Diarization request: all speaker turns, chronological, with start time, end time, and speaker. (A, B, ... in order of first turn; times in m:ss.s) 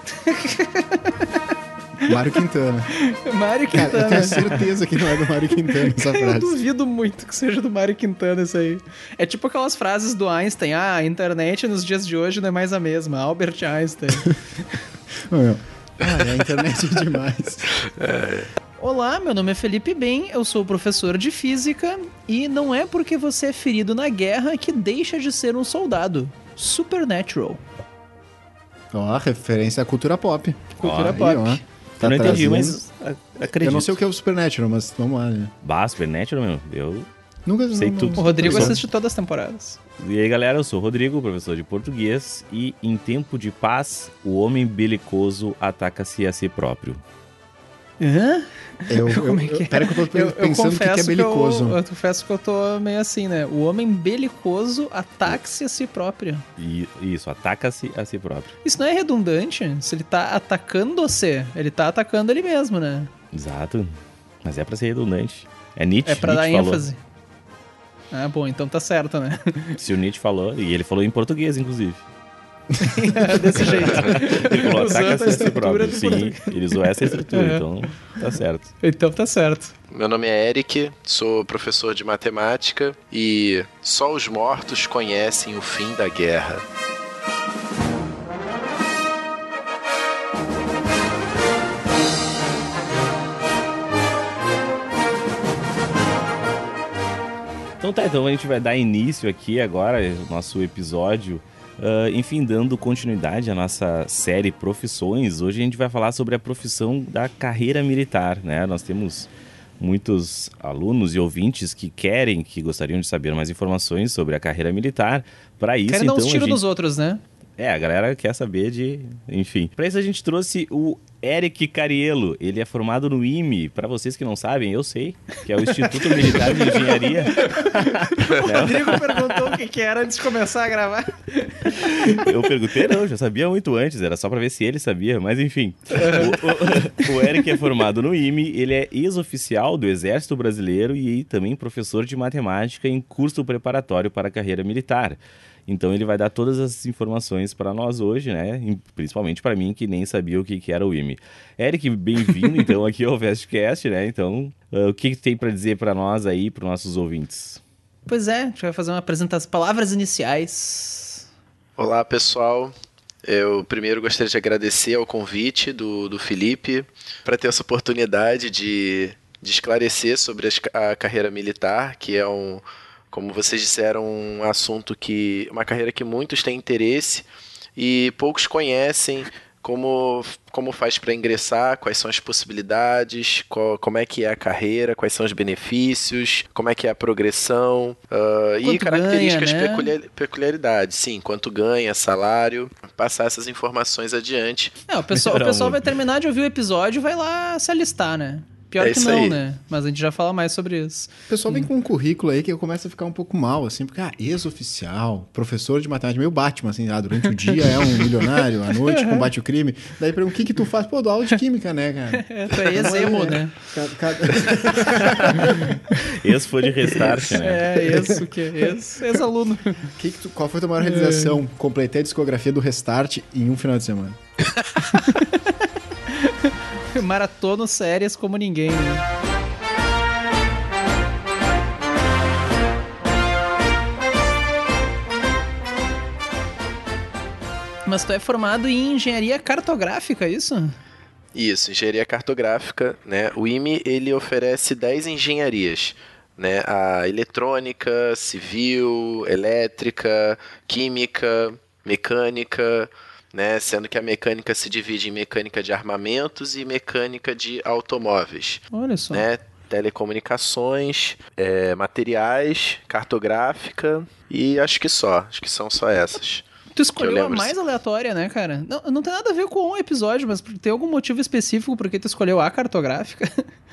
0:00.2-0:01.4 A
0:02.0-0:02.9 B
0:03.0-0:14.4 A
0:03.7-0:06.5 B
0:15.3-0:17.7 B
0:17.8-0:18.5 C
0:18.8-0:27.6 A
0:28.9-0:32.8 B
0:30.8-0:31.6 A
0:30.8-0:31.2 D
0:32.0-0:34.0 D
0:33.4-0:35.5 B
0:35.6-0:37.1 D
0:37.4-0:38.8 B
0:37.7-0:38.8 D
0:38.2-0:39.8 A
0:40.0-0:47.0 D
0:48.0-0:56.4 A
0:48.9-0:51.8 B
0:56.6-0:58.5 D
0:58.6-1:03.1 A
1:03.3-1:06.8 D
1:06.1-1:07.0 A
1:08.1-1:09.8 A
1:09.8-1:12.0 D
1:12.8-1:18.3 A
1:13.6-1:18.7 D
1:18.8-1:19.8 A
1:19.9-1:26.6 C
1:37.8-1:49.3 D
1:49.8-1:56.6 D
1:55.9-1:57.2 A
1:57.6-2:09.6 D
2:05.7-2:12.3 A
2:12.1-2:37.6 D
2:15.9-2:17.3 A
2:38.1-2:41.2 A
2:41.8-2:42.7 C
2:43.2-3:14.8 C
3:08.6-3:09.9 A
3:14.9-3:21.7 A
3:15.1-3:15.8 D
3:18.8-3:19.4 C
3:21.3-3:35.8 B
3:28.9-3:29.2 A
3:32.1-3:33.5 A
3:35.3-3:36.0 A
3:36.0-3:37.8 D
3:37.0-3:39.9 A
3:37.8-3:38.2 B
3:40.0-3:44.2 B
3:40.8-3:41.4 A
3:44.9-3:45.5 A
3:46.1-3:49.0 A
3:57.9-4:00.8 A
4:01.3-4:26.4 C
4:18.7-4:19.3 A
4:26.7-4:33.4 A
4:27.0-4:27.5 C